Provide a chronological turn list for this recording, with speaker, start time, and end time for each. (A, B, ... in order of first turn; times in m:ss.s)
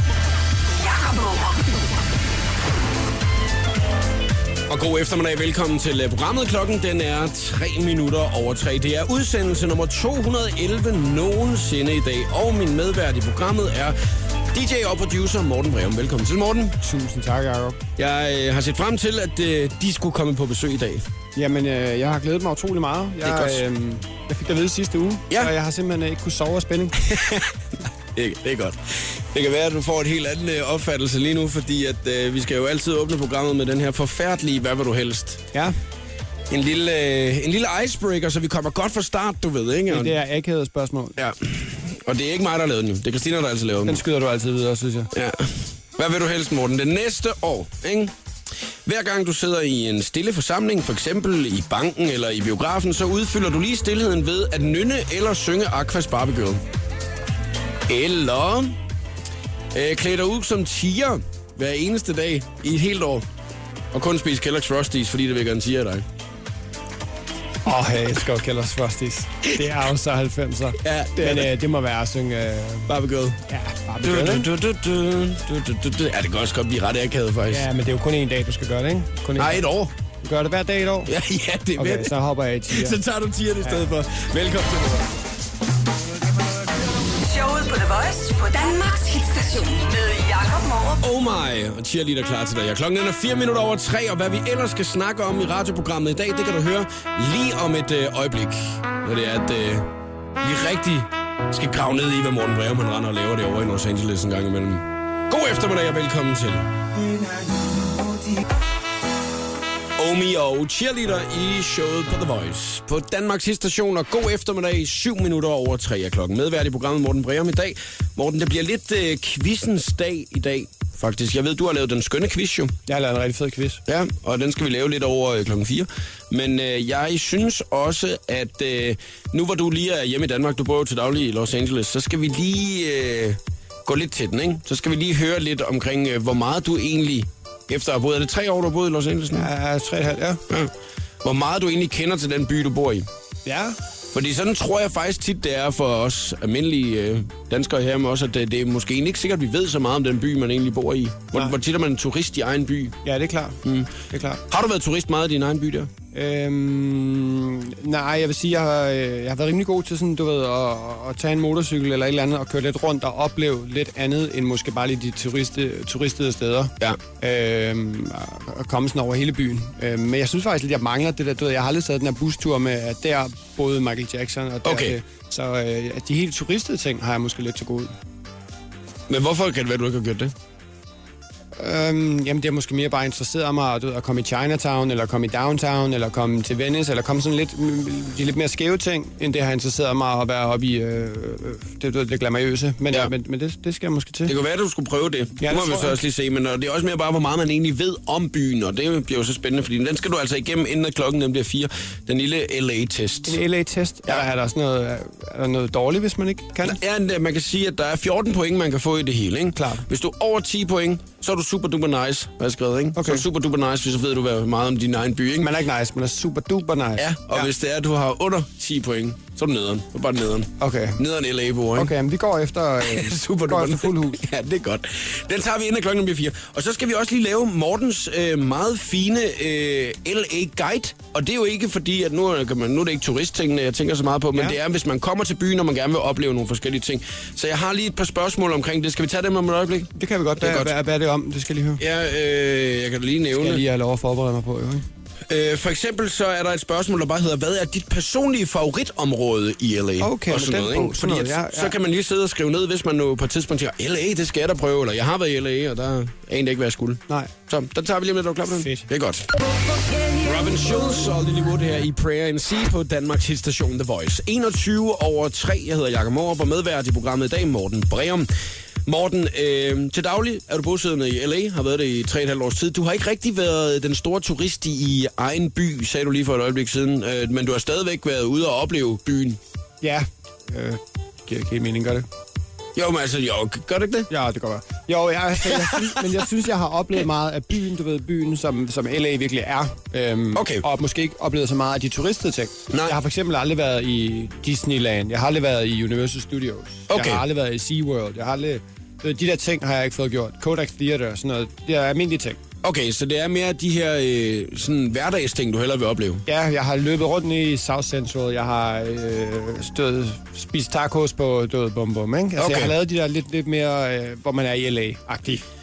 0:00.7-0:01.7 A
0:04.7-0:14.0 B
0:14.5-0:16.8 B
0:16.8-0:17.8 C
0:18.0-0:21.0 B
0:21.3-0:27.0 C
0:23.2-0:23.6 B
0:27.0-0:27.6 B
0:28.1-0:35.4 B
0:36.5-0:40.2 B
0:39.9-0:41.2 C
0:41.2-0:44.0 B
0:43.8-0:45.1 C
0:45.1-0:48.1 B
0:48.8-0:56.6 B
0:57.8-0:58.8 B
0:59.7-1:03.2 B
1:03.9-1:06.0 B
1:07.6-1:12.9 C
1:09.4-1:09.7 B
1:10.8-1:11.5 B
1:12.9-1:13.4 B
1:13.5-1:14.5 C
1:14.0-1:17.6 B
1:17.5-1:19.6 C
1:19.4-1:19.9 B
1:20.2-1:21.1 C
1:21.0-1:22.1 B
1:21.8-1:23.0 C
1:22.7-1:25.2 B
1:27.1-1:31.0 A
1:31.0-1:46.7 B
1:50.0-2:02.7 B
2:02.8-2:03.8 C
2:03.9-2:19.5 B
2:19.3-2:20.4 C
2:21.2-2:23.1 B
2:23.4-2:23.8 C
2:24.1-2:33.0 B
2:33.0-2:34.4 C
2:33.6-2:33.9 B
2:34.5-2:35.9 B
2:36.1-2:57.9 C
2:54.6-2:55.0 B
2:59.1-3:00.3 B
3:01.6-3:14.3 C
3:14.2-3:23.4 B
3:15.4-3:16.0 C
3:23.3-3:26.8 C
3:26.6-3:35.6 B
3:29.5-3:29.8 C
3:32.9-3:33.2 C
3:35.4-3:37.5 C
3:37.0-3:41.9 B
3:40.6-3:41.0 C
3:41.7-3:44.2 C
3:42.8-4:00.7 B
3:59.9-4:01.8 C
4:01.8-4:03.6 B
4:03.3-4:04.8 C
4:05.3-4:19.3 B
4:10.0-4:11.7 C
4:18.5-4:18.9 C
4:20.1-4:28.3 B
4:28.8-4:39.4 B
4:39.8-4:42.1 C
4:42.8-4:44.1 B
4:44.1-5:02.4 C
4:45.4-4:46.2 B
4:50.3-4:50.6 B
4:52.7-4:53.0 B
4:56.9-4:57.2 B
5:02.6-5:06.2 B
5:06.3-5:15.4 C
5:12.4-5:12.7 B